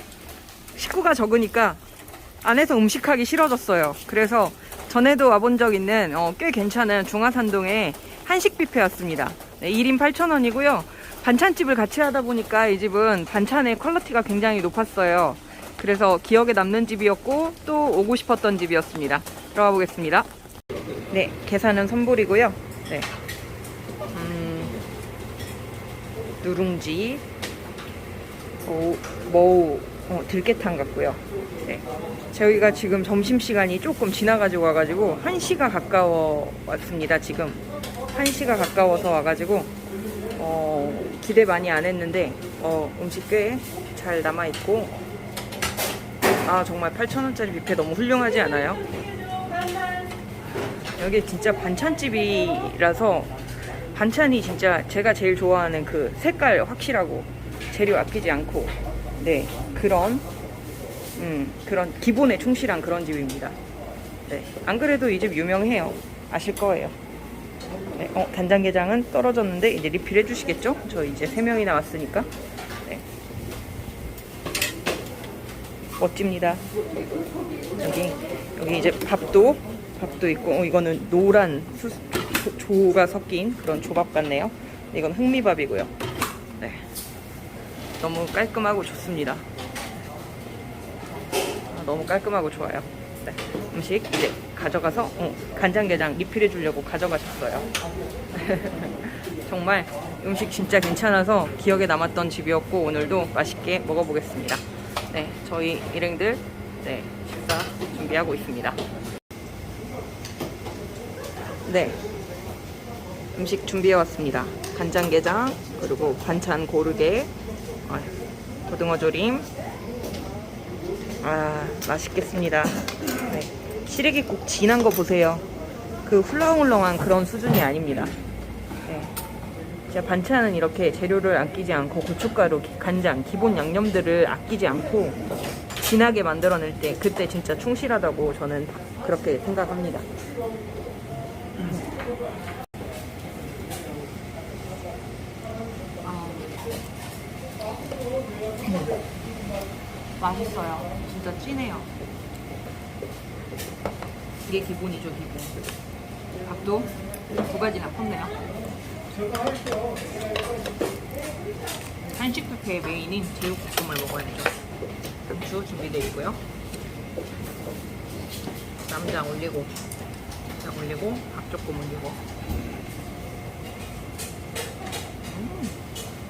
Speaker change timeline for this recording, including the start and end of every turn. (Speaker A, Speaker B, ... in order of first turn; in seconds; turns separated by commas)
Speaker A: 0.7-1.8, Speaker A: 2.4-20.3, Speaker A: 21.1-23.1, Speaker A: 24.1-24.8, Speaker A: 26.4-27.2, Speaker A: 28.6-39.7, Speaker A: 40.4-45.0, Speaker A: 46.4-48.8, Speaker A: 50.9-53.3, Speaker A: 53.9-60.2, Speaker A: 61.1-63.6, Speaker A: 64.2-67.0, Speaker A: 67.9-72.3, Speaker A: 76.0-76.6, Speaker A: 77.8-85.9, Speaker A: 86.6-86.8, Speaker A: 88.0-89.5, Speaker A: 91.7-97.7, Speaker A: 98.3-108.8, Speaker A: 111.6-112.0, Speaker A: 113.3-117.3, Speaker A: 117.8-118.1, Speaker A: 118.7-119.5, Speaker A: 121.2-125.4, Speaker A: 126.0-128.1, Speaker A: 128.8-129.1, Speaker A: 129.9-135.2, Speaker A: 135.8-140.1, Speaker A: 141.5-141.9, Speaker A: 146.0-146.5, Speaker A: 148.7-148.9, Speaker A: 150.2-151.9, Speaker A: 154.4-155.6, Speaker A: 156.4-158.4, Speaker A: 162.1-164.6, Speaker A: 165.2-166.4, Speaker A: 168.8-169.7, Speaker A: 170.6-172.2, Speaker A: 175.2-175.8